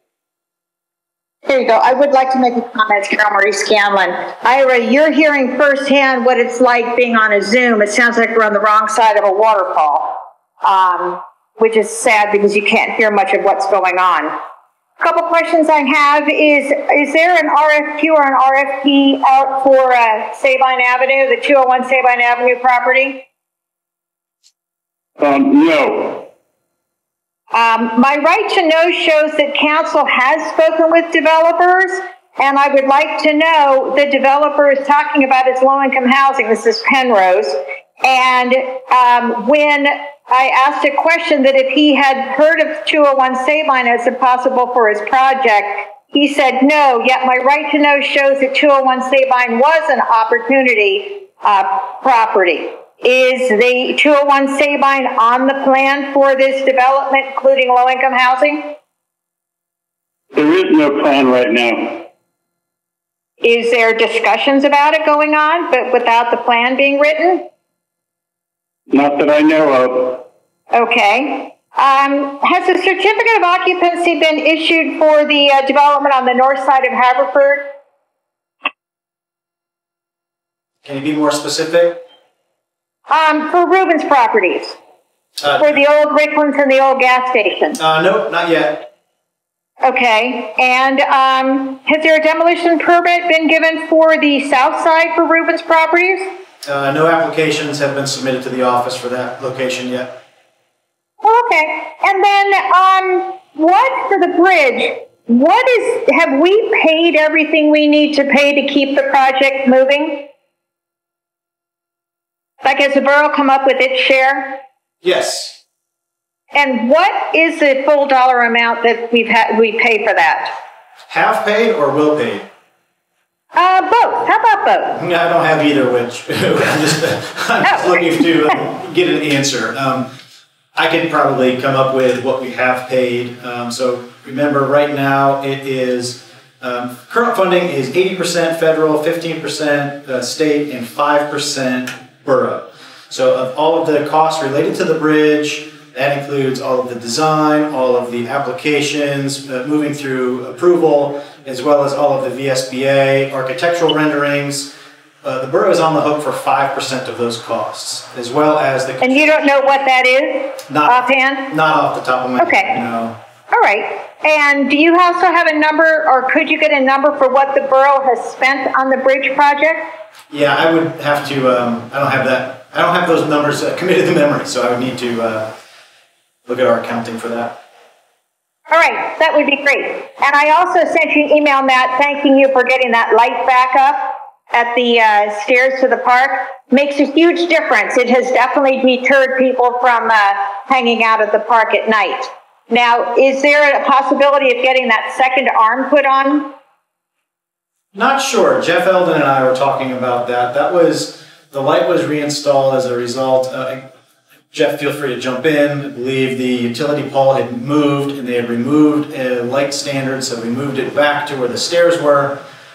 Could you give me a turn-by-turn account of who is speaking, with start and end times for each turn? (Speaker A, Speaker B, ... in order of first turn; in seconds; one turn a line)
Speaker A: 1.5-14.3
Speaker A: 15.0-23.2
Speaker B: 25.2-26.2
Speaker A: 27.5-58.7
Speaker B: 60.3-62.0
Speaker A: 63.4-67.5
Speaker B: 68.9-70.2
Speaker A: 70.7-77.7
Speaker C: 80.8-82.0
Speaker A: 83.1-84.8
Speaker C: 85.4-85.8
Speaker A: 85.6-87.8
Speaker C: 87.8-88.9
Speaker A: 89.8-96.2
Speaker C: 96.7-100.2
Speaker A: 101.2-110.3
Speaker A: 112.6-114.6
Speaker C: 115.0-115.6
Speaker A: 116.5-120.5
Speaker C: 121.1-122.5
Speaker A: 123.5-125.0
Speaker C: 125.0-130.1
Speaker A: 127.7-128.1
Speaker C: 130.8-154.7
Speaker C: 155.2-159.4
Speaker A: 159.0-161.5
Speaker C: 160.7-163.2
Speaker A: 162.4-162.8
Speaker A: 163.5-169.9
Speaker C: 170.3-175.5
Speaker C: 176.5-177.6
Speaker A: 178.7-196.5
Speaker C: 197.9-203.8
Speaker C: 204.5-212.4